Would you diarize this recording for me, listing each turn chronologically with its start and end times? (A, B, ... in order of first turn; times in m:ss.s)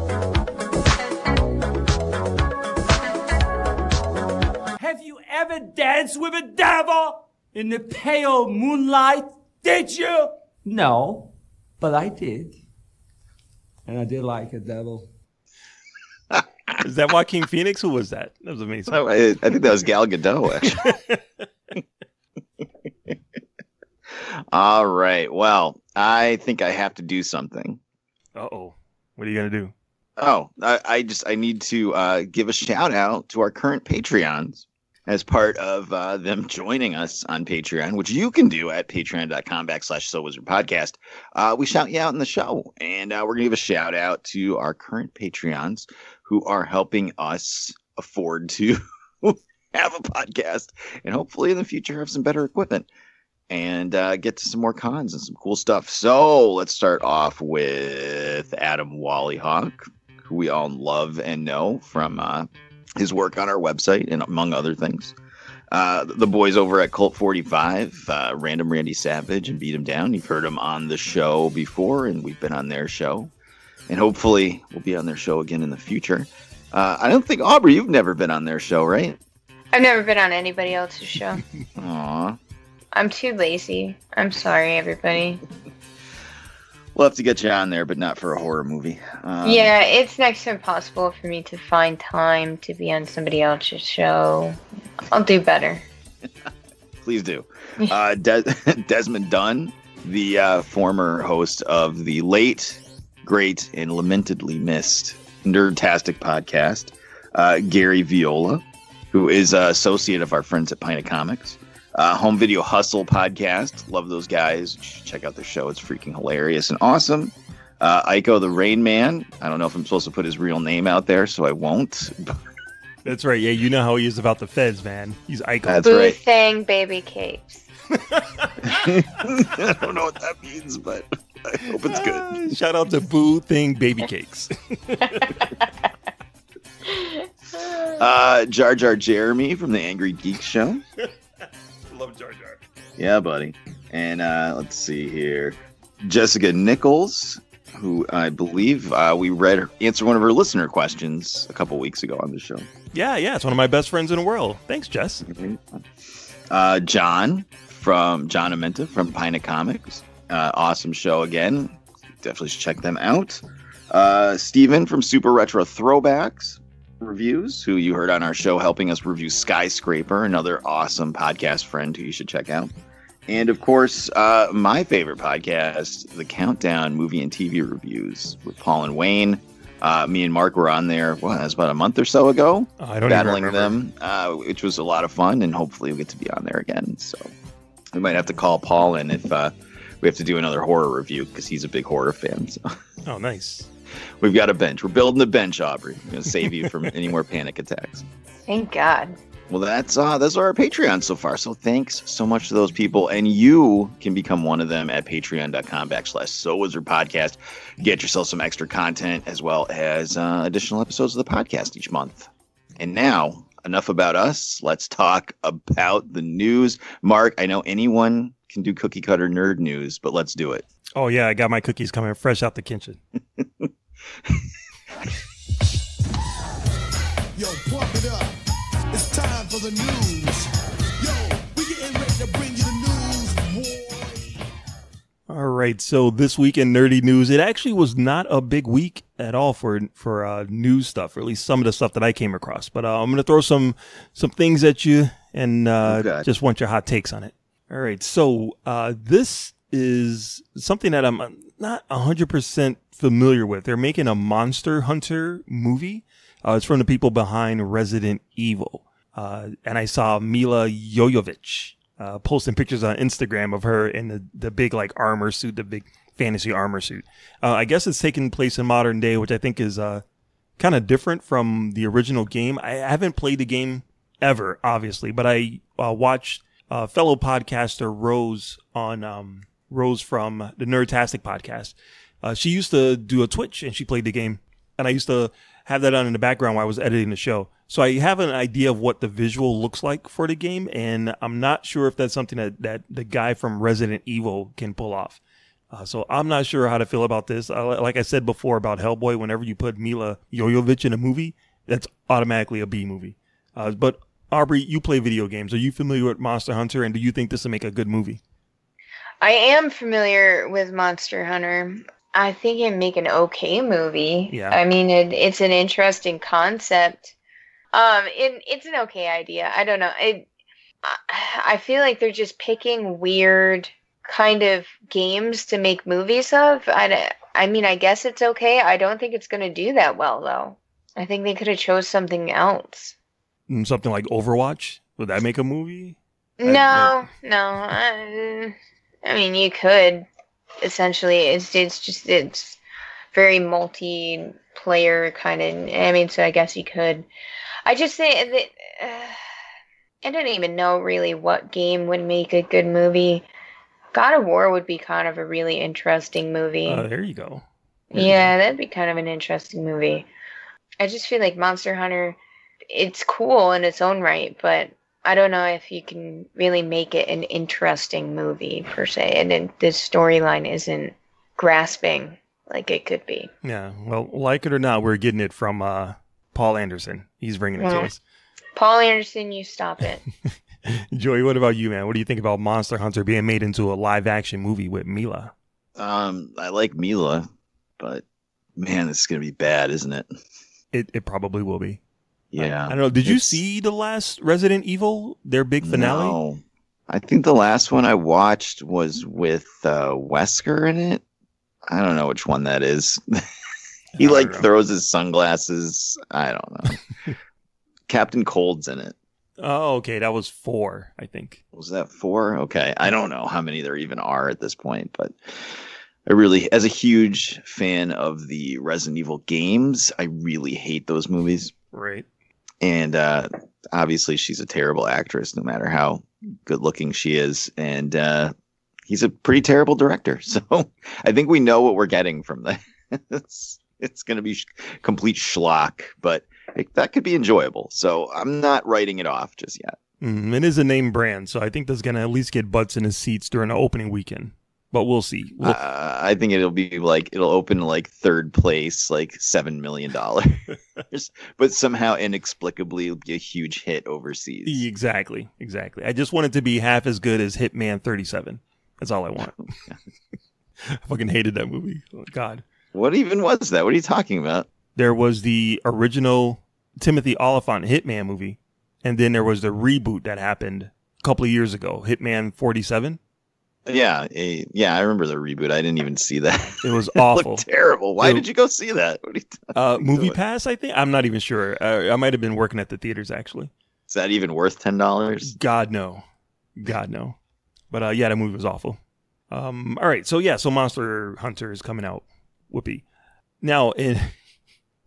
0:04.8-0:12.6 A
0:13.9-0:15.1 A
0:16.8-0:19.0 B
0:18.9-0:20.9 C
0:20.6-0:21.2 B
0:24.1-0:27.8 C
0:28.4-0:29.7 B
0:30.2-0:52.9 C
0:53.5-1:05.2 C
1:05.7-1:13.3 C
1:13.9-1:19.2 C
1:19.7-1:21.4 D
1:21.8-1:22.4 C
1:22.9-1:25.4 D
1:27.0-1:29.7 C
1:29.4-1:34.6 D
1:35.1-1:35.8 D
1:37.0-2:02.4 C
2:03.0-2:05.9 B
2:05.7-2:06.2 C
2:05.8-2:07.7 D
2:08.0-2:08.9 B
2:08.6-2:12.6 C
2:11.7-2:15.4 B
2:17.0-2:17.2 D
2:18.0-2:20.8 C
2:21.9-2:22.6 B
2:23.0-2:32.7 C
2:32.9-2:35.2 B
2:35.3-2:35.8 C
2:36.5-2:52.7 C
2:53.3-3:07.3 C
3:02.8-3:03.8 B
3:07.9-3:12.6 C
3:13.1-3:13.7 B
3:14.2-3:18.0 C
3:18.5-3:19.2 D
3:19.5-3:40.6 C
3:41.0-3:43.0 B
3:43.4-3:43.7 C
3:47.4-3:48.4 E
3:48.9-3:50.5 E
3:51.0-3:54.4 E
3:55.3-4:30.0 B
4:05.9-4:06.2 C
4:30.6-4:55.2 B
4:55.7-5:08.2 B
5:09.2-5:17.2 D
5:14.3-5:14.6 B
5:17.7-5:20.3 D
5:20.8-5:33.0 D
5:33.5-5:37.0 B
5:36.4-5:40.1 D
5:40.6-5:42.6 D
5:43.1-5:47.1 D
5:47.6-5:49.2 D
5:50.0-5:53.3 D
5:53.9-5:56.8 D
5:56.7-5:57.4 B
5:57.9-6:00.1 D
5:58.0-5:58.3 B
6:00.8-6:02.2 D
6:02.7-6:13.3 D
6:13.4-6:18.0 B
6:17.6-6:17.9 D
6:18.6-6:20.0 D
6:20.7-6:25.3 B
6:25.8-6:27.3 C
6:27.8-6:28.0 C
6:28.6-6:30.1 C
6:30.7-6:31.8 B
6:32.3-6:33.4 C
6:32.4-6:36.2 B
6:35.6-6:41.0 C
6:41.7-6:43.0 C
6:44.0-6:44.5 B
6:44.0-6:46.8 C
6:47.9-6:49.0 C
6:49.4-6:51.4 B
6:51.5-7:01.5 C
7:01.7-7:02.1 B
7:02.6-7:08.3 C
7:08.9-7:19.8 C
7:20.0-7:25.6 B
7:25.4-7:34.7 C
7:34.5-7:39.4 B
7:40.8-7:42.4 B
7:42.7-7:44.5 C
7:44.8-7:53.0 B
7:53.7-8:00.2 C
7:56.6-7:57.4 B
7:58.0-7:58.2 B
7:59.6-8:03.5 B
8:03.9-8:05.3 C
8:05.2-8:06.0 B
8:06.6-8:07.2 B
8:07.7-8:08.8 B
8:09.3-8:12.8 B
8:13.4-8:14.1 B